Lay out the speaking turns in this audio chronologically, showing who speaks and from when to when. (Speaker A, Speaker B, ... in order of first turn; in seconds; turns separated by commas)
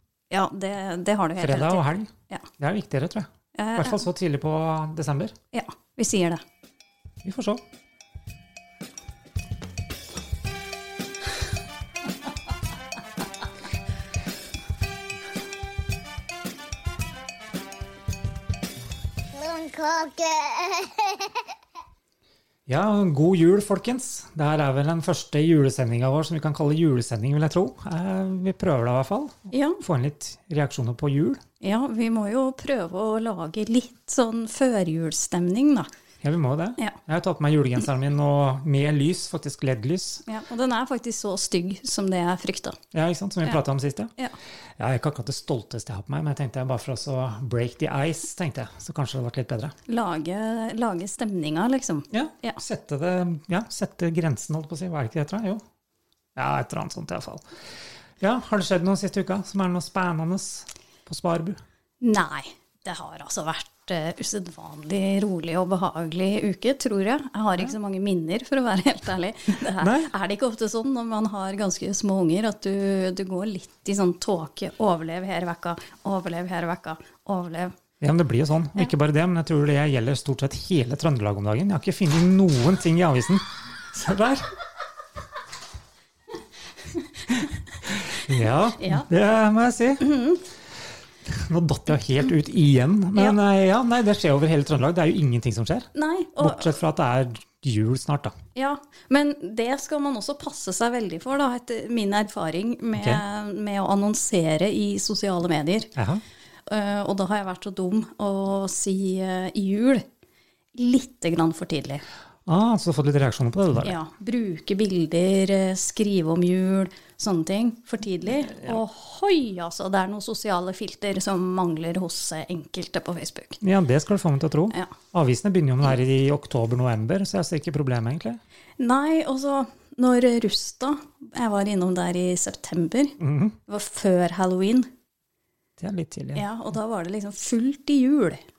Speaker A: 0.3-2.5, Speaker B: 1.4-5.3, Speaker A: 3.5-4.1, Speaker A: 5.5-6.4, Speaker B: 7.2-7.6, Speaker C: 19.3-21.2, Speaker B: 22.7-31.4, Speaker A: 29.5-29.8, Speaker A: 31.6-35.9, Speaker B: 36.2-40.2, Speaker A: 40.2-42.8, Speaker B: 42.9-44.1, Speaker B: 44.8-49.7, Speaker A: 49.9-52.6, Speaker B: 52.1-55.6, Speaker B: 56.3-57.4, Speaker B: 58.2-61.6, Speaker A: 62.0-77.7, Speaker B: 69.8-70.1, Speaker B: 78.0-84.5, Speaker B: 87.8-90.1, Speaker A: 88.8-89.0, Speaker A: 90.0-90.4, Speaker B: 91.2-95.9, Speaker A: 95.9-96.8, Speaker B: 96.4-98.3, Speaker A: 98.5-105.9, Speaker B: 103.0-103.2, Speaker B: 106.0-106.2, Speaker A: 106.7-110.0, Speaker A: 110.7-112.0, Speaker B: 112.5-114.0, Speaker A: 113.8-123.6, Speaker B: 118.5-118.8, Speaker B: 123.6-128.4, Speaker A: 128.8-134.9, Speaker B: 133.2-133.6, Speaker B: 135.8-136.4, Speaker A: 136.3-138.4